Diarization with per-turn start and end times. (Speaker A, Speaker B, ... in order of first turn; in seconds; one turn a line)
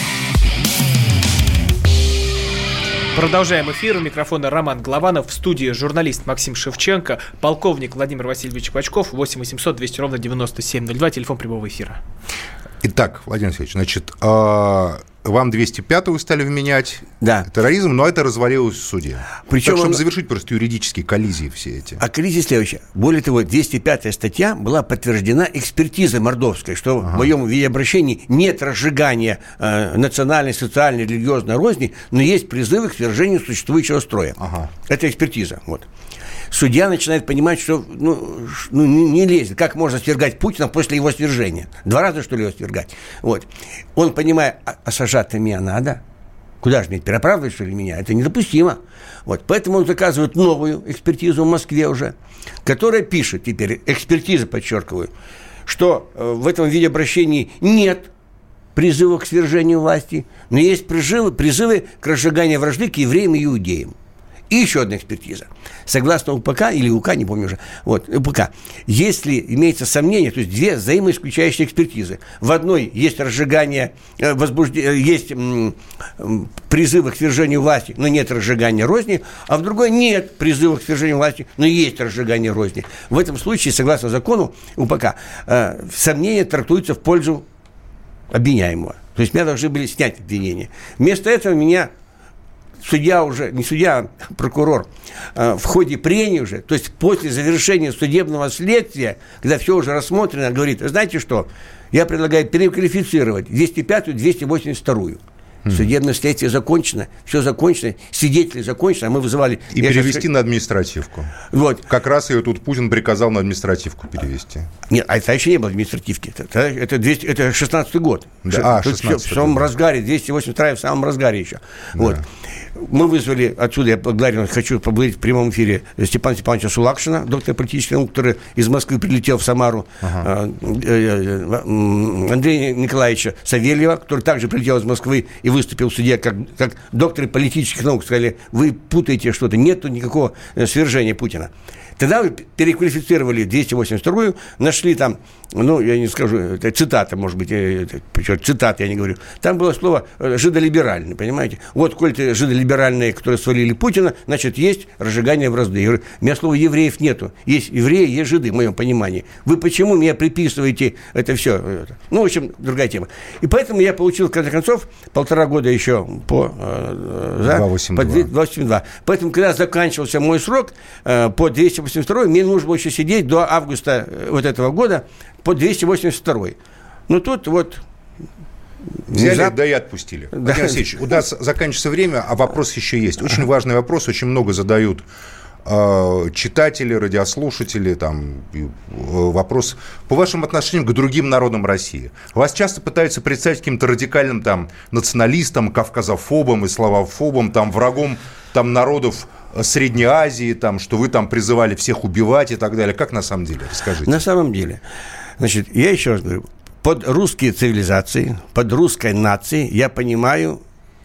Speaker A: 3.1-12.0
Speaker B: 12.8-22.0
Speaker C: 17.2-17.5
Speaker C: 19.5-20.0
Speaker C: 22.0-35.9
Speaker B: 27.0-27.3
Speaker B: 34.4-34.7
Speaker C: 36.5-46.0
Speaker C: 46.6-55.1
Speaker C: 55.7-58.1
Speaker C: 58.8-63.9
Speaker C: 64.5-87.5
Speaker C: 88.3-91.9
Speaker C: 92.8-110.2
Speaker B: 105.7-105.9
Speaker B: 109.7-111.3
Speaker C: 111.5-111.8
Speaker B: 111.9-114.7
Speaker C: 114.9-177.8
Speaker B: 118.4-119.7
Speaker B: 122.0-122.2
Speaker B: 130.0-130.3
Speaker B: 167.4-168.3
Speaker C: 179.1-179.5
Speaker B: 179.1-185.1
Speaker C: 180.3-180.8
Speaker B: 185.7-204.2
Speaker C: 204.0-204.8
Speaker C: 205.4-210.6